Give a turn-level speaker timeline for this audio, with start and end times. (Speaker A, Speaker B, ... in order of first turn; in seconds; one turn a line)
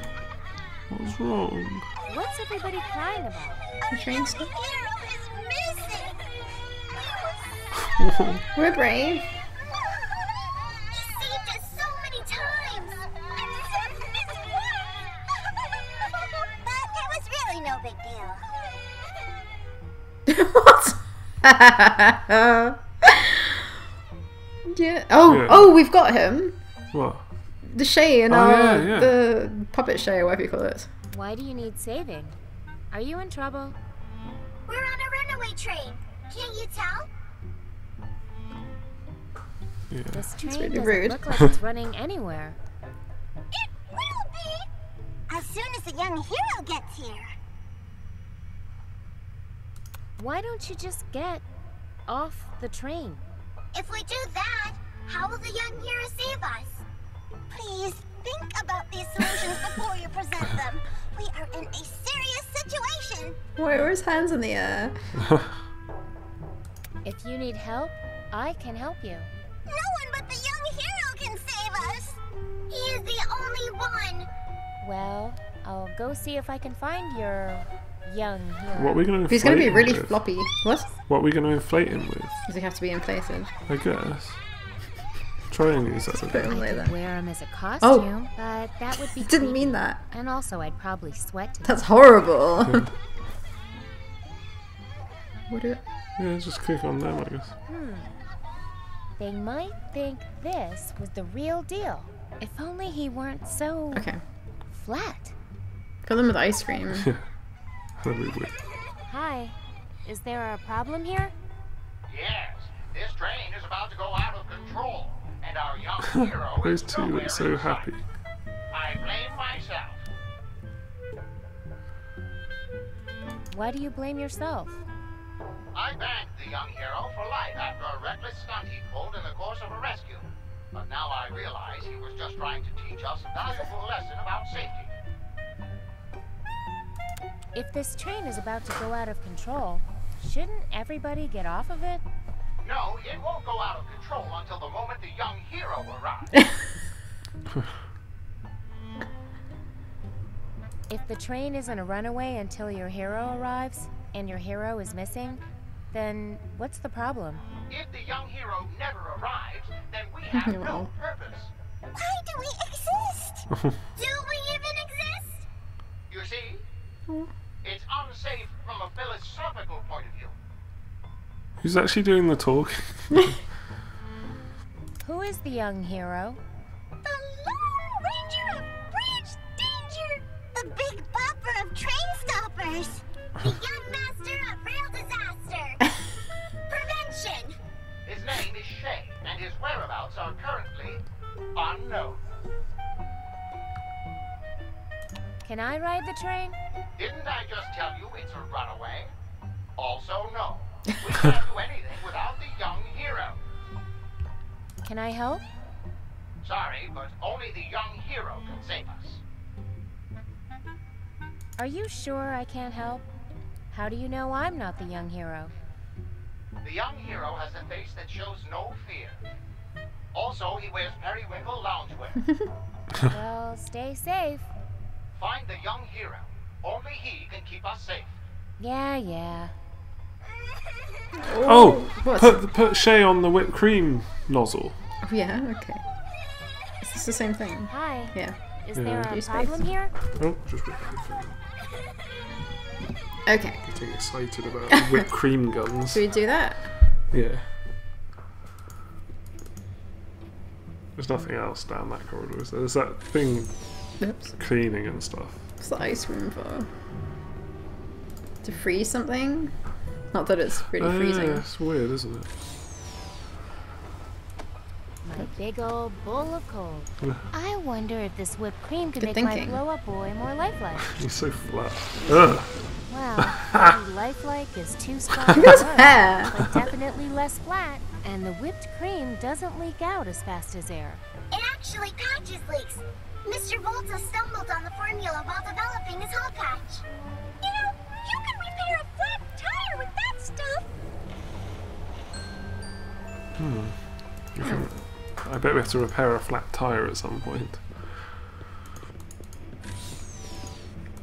Speaker A: 0.9-1.8
Speaker B: 2.1-3.6
Speaker C: 3.9-4.5
Speaker D: 3.9-6.3
Speaker A: 8.0-8.4
Speaker C: 8.5-9.3
Speaker D: 10.9-18.6
Speaker C: 20.3-23.7
Speaker C: 24.7-26.6
Speaker A: 25.2-25.7
Speaker A: 26.9-27.2
Speaker C: 27.7-30.9
Speaker A: 28.3-29.2
Speaker B: 31.1-32.4
Speaker B: 32.9-33.8
Speaker D: 34.7-37.1
Speaker A: 39.9-40.3
Speaker B: 40.1-42.6
Speaker C: 40.4-41.2
Speaker D: 43.5-44.7
Speaker D: 45.3-47.3
Speaker B: 50.2-51.4
Speaker B: 52.1-53.2
Speaker D: 53.7-56.8
Speaker D: 57.5-63.4
Speaker C: 63.6-65.1
Speaker B: 67.0-69.3
Speaker D: 69.7-74.3
Speaker B: 74.8-79.1
Speaker A: 78.7-80.2
Speaker C: 79.3-80.9
Speaker A: 81.1-82.4
Speaker C: 82.5-83.5
Speaker A: 83.7-84.4
Speaker A: 85.5-86.5
Speaker C: 86.2-86.9
Speaker B: 86.3-91.9
Speaker C: 87.8-88.1
Speaker C: 89.2-90.0
Speaker C: 91.6-92.9
Speaker C: 95.5-95.8
Speaker A: 96.2-97.5
Speaker B: 97.7-98.1
Speaker B: 99.2-104.1
Speaker C: 103.9-104.2
Speaker B: 104.7-105.3
Speaker C: 106.0-107.1
Speaker A: 106.9-107.2
Speaker A: 108.0-108.6
Speaker B: 109.1-111.3
Speaker E: 112.1-117.9
Speaker A: 116.2-118.0
Speaker E: 118.7-120.0
Speaker B: 123.5-124.8
Speaker E: 125.7-134.9
Speaker B: 137.5-142.0
Speaker E: 142.6-146.3
Speaker B: 150.9-157.4
Speaker E: 157.7-161.5
Speaker C: 160.3-160.9
Speaker D: 161.9-165.4
Speaker E: 166.1-166.6
Speaker E: 167.6-170.3
Speaker A: 171.6-173.3
Speaker B: 175.0-176.4
Speaker D: 177.0-185.9
Speaker D: 186.7-187.6
Speaker E: 188.1-191.0
Speaker E: 191.5-192.2
Speaker B: 195.4-196.6
Speaker E: 197.0-199.1
Speaker E: 199.8-203.4
Speaker B: 204.8-205.4
Speaker E: 206.4-209.2
Speaker B: 211.6-213.1
Speaker B: 213.7-215.5
Speaker E: 216.6-219.2
Speaker E: 220.1-222.2
Speaker B: 223.1-224.5
Speaker E: 225.1-228.2
Speaker B: 228.6-229.5
Speaker C: 231.2-232.4
Speaker A: 231.4-234.8
Speaker C: 235.0-235.8
Speaker C: 236.8-238.4
Speaker B: 237.7-239.9
Speaker A: 238.7-239.1
Speaker C: 239.1-239.6
Speaker A: 240.1-241.3
Speaker C: 243.2-243.6
Speaker A: 243.6-246.0
Speaker C: 245.9-246.7
Speaker A: 247.1-247.5
Speaker A: 250.9-255.4
Speaker C: 254.0-254.3
Speaker C: 255.6-256.7
Speaker C: 258.4-259.5
Speaker C: 260.1-261.4
Speaker A: 260.8-262.3
Speaker B: 265.0-270.9
Speaker C: 269.0-269.6
Speaker A: 270.9-272.6
Speaker B: 272.9-281.0
Speaker A: 273.3-273.7
Speaker C: 275.4-276.3
Speaker D: 281.3-286.8
Speaker D: 287.4-290.7
Speaker A: 293.4-298.1
Speaker C: 294.4-294.7